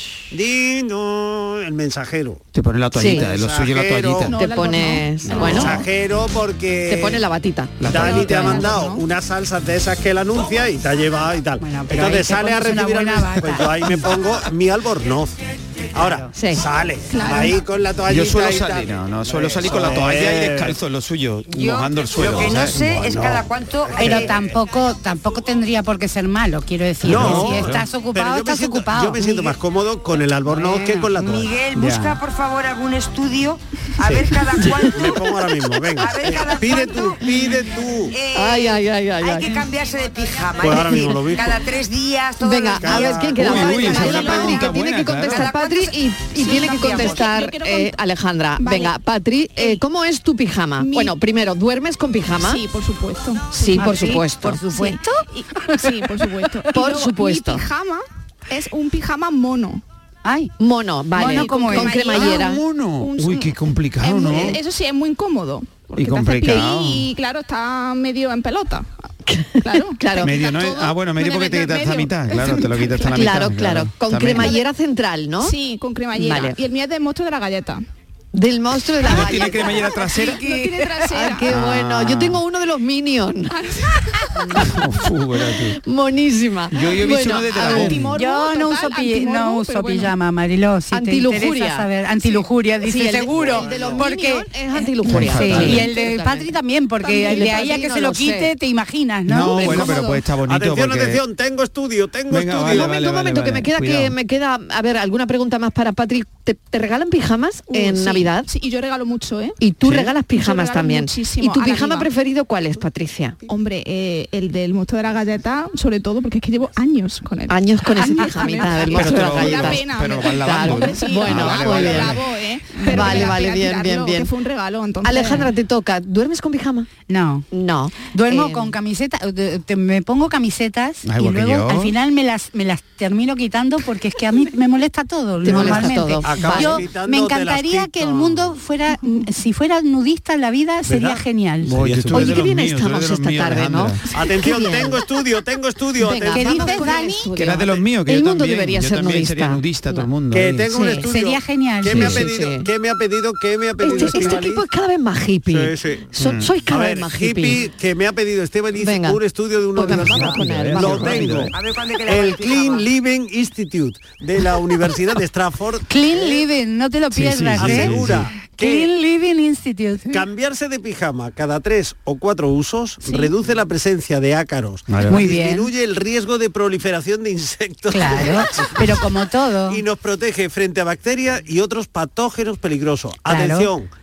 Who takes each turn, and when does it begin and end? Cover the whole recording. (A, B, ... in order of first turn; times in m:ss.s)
0:00.3-0:02.4 A
0:02.5-0:04.4 B
0:03.0-0:03.3 C
0:03.0-0:04.4 A
0:04.3-0:05.8 D
0:04.4-0:05.8 C
0:05.3-0:05.5 B
0:05.3-0:07.2 A
0:06.9-0:07.9 C
0:07.8-0:08.7 B
0:07.9-0:15.4 A
0:07.9-0:09.0 D
0:11.6-0:13.7 E
0:15.9-0:20.8 A
0:16.0-0:16.3 E
0:16.3-0:16.6 C
0:17.1-0:17.6 D
0:18.1-0:22.8 B
0:21.5-0:24.4 F
0:22.2-0:24.4 A
0:24.0-0:29.6 E
0:27.0-0:27.8 B
0:27.0-0:31.6 A
0:30.5-0:31.1 E
0:31.1-0:35.3 F
0:31.7-0:32.2 B
0:34.0-0:38.2 A
0:35.9-0:37.3 F
0:38.1-0:47.3 F
0:38.3-0:39.6 C
0:40.6-0:41.7 A
0:42.4-0:52.6 C
0:42.8-0:43.4 A
0:43.1-0:45.5 B
0:44.0-0:44.8 D
0:46.4-0:48.0 D
0:48.6-0:49.0 D
0:50.8-0:51.2 D
0:52.4-0:54.1 D
0:53.5-0:54.6 C
0:53.8-0:55.8 E
0:54.6-0:59.8 D
0:56.7-0:57.6 C
1:00.2-1:00.5 E
1:00.6-1:02.6 C
1:01.1-1:02.1 E
1:01.2-1:08.9 D
1:02.0-1:04.6 B
1:06.0-1:07.1 B
1:09.3-1:10.4 C
1:09.6-1:13.3 D
1:10.2-1:14.6 B
1:13.1-1:15.6 C
1:15.4-1:17.9 D
1:16.2-1:16.6 C
1:18.3-1:19.9 C
1:19.0-1:20.5 B
1:19.1-1:21.6 D
1:20.4-1:21.0 E
1:21.1-1:23.7 C
1:21.5-1:22.4 B
1:23.5-1:24.0 D
1:24.6-1:25.8 B
1:25.6-1:28.0 C
1:26.7-1:28.2 B
1:27.1-1:30.1 D
1:28.1-1:40.2 E
1:30.9-1:31.9 C
1:32.8-1:38.5 C
1:33.2-1:34.1 A
1:35.0-1:35.9 B
1:39.3-1:41.2 B
1:39.6-1:40.0 C
1:40.5-1:43.0 A
1:42.3-1:44.2 B
1:42.6-1:48.5 C
1:47.7-1:49.6 D
1:49.6-1:53.4 C
1:49.8-1:50.2 B
1:50.2-1:52.1 D
1:53.5-2:05.5 D
1:57.5-1:59.9 C
1:58.0-1:58.9 E
1:58.8-2:02.3 B
2:00.4-2:02.2 C
2:02.8-2:04.3 C
2:02.9-2:03.3 B
2:05.0-2:06.9 C
2:07.1-2:07.5 E
2:07.5-2:08.7 C
2:08.1-2:21.7 E
2:11.0-2:11.9 B
2:15.4-2:16.9 C
2:15.5-2:18.6 A
2:20.9-2:22.4 A
2:21.6-2:24.1 B
2:22.1-2:25.0 C
2:24.1-2:26.9 A
2:26.0-2:30.1 C
2:26.3-2:27.3 E
2:27.4-2:30.7 B
2:30.3-2:34.6 A
2:30.7-2:31.1 C
2:31.0-2:32.2 E
2:31.9-2:32.2 B
2:31.9-2:32.7 C
2:33.8-2:37.6 C
2:35.5-2:45.9 A
2:36.2-2:36.6 B
2:38.8-2:39.2 C
2:39.8-2:41.4 C
2:39.8-2:41.5 B
2:41.5-2:42.9 F
2:45.9-2:50.2 E
2:47.1-2:48.3 B
2:47.6-2:48.9 A
2:50.1-2:59.1 A
2:53.0-2:53.3 D
2:54.9-2:55.3 B
2:55.1-2:55.7 E
2:57.9-2:59.8 E
2:59.7-3:03.9 A
3:03.3-3:03.7 E